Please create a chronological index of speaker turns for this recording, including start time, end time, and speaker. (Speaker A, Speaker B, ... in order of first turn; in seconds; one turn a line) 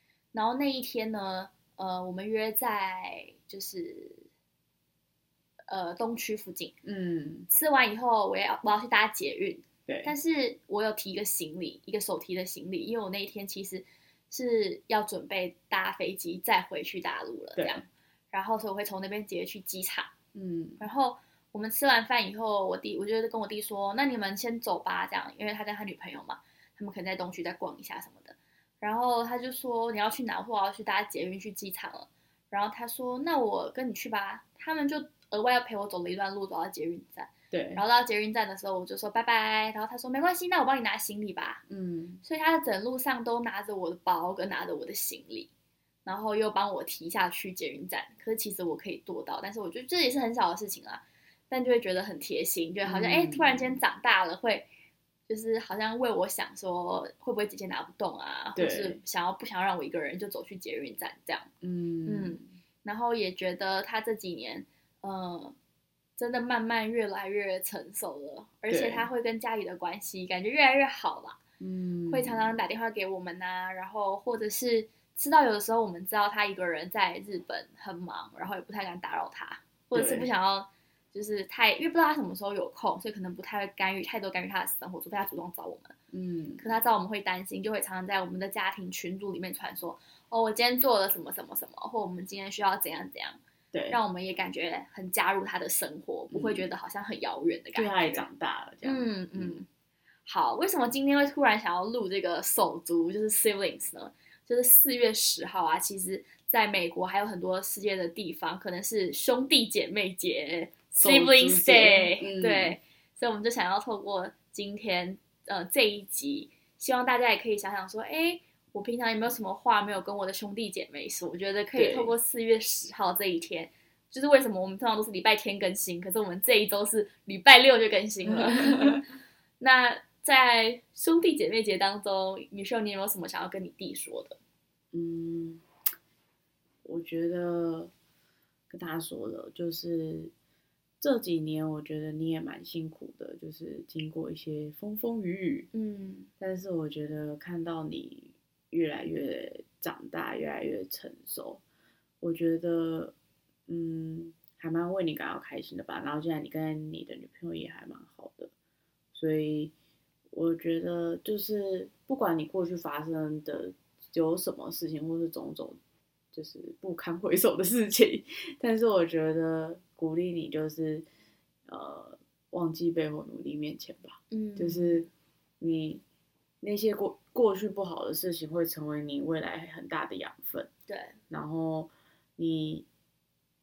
Speaker A: 0.3-4.2
Speaker A: 5.7-6.8
Speaker B: 6.8-7.5
Speaker A: 7.5-20.1
Speaker B: 9.9-10.1
Speaker B: 17.6-17.8
Speaker B: 20.3-20.8
Speaker A: 20.8-41.6
Speaker B: 37.5-37.8
Speaker B: 41.7-42.2
Speaker A: 42.2-45.5
Speaker A: 46.1-54.7
Speaker B: 52.8-53.8
Speaker A: 55.3-61.5
Speaker B: 58.6-59.0
Speaker B: 61.6-62.5
Speaker A: 62.1-65.5
Speaker A: 66.2-71.4
Speaker B: 68.7-69.1
Speaker B: 71.6-72.6
Speaker A: 72.1-85.9
Speaker B: 79.9-80.3
Speaker B: 86.1-86.7
Speaker A: 86.6-93.4
Speaker B: 93.7-94.0
Speaker A: 93.9-98.2
Speaker B: 96.3-96.7
Speaker B: 97.7-99.6
Speaker A: 98.8-99.7
Speaker A: 100.3-129.1
Speaker B: 111.0-112.8
Speaker B: 121.7-122.1
Speaker A: 129.6-134.4
Speaker B: 134.9-135.6
Speaker B: 136.8-137.9
Speaker B: 138.7-140.3
Speaker B: 141.0-145.7
Speaker A: 145.7-146.3
Speaker B: 146.4-151.6
Speaker B: 152.2-153.1
Speaker B: 153.7-158.5
Speaker B: 159.1-159.7
Speaker B: 160.3-165.8
Speaker B: 166.3-171.1
Speaker B: 171.7-175.1
Speaker A: 174.3-175.0
Speaker B: 175.6-176.0
Speaker B: 176.6-180.7
Speaker A: 180.9-181.2
Speaker B: 181.3-182.9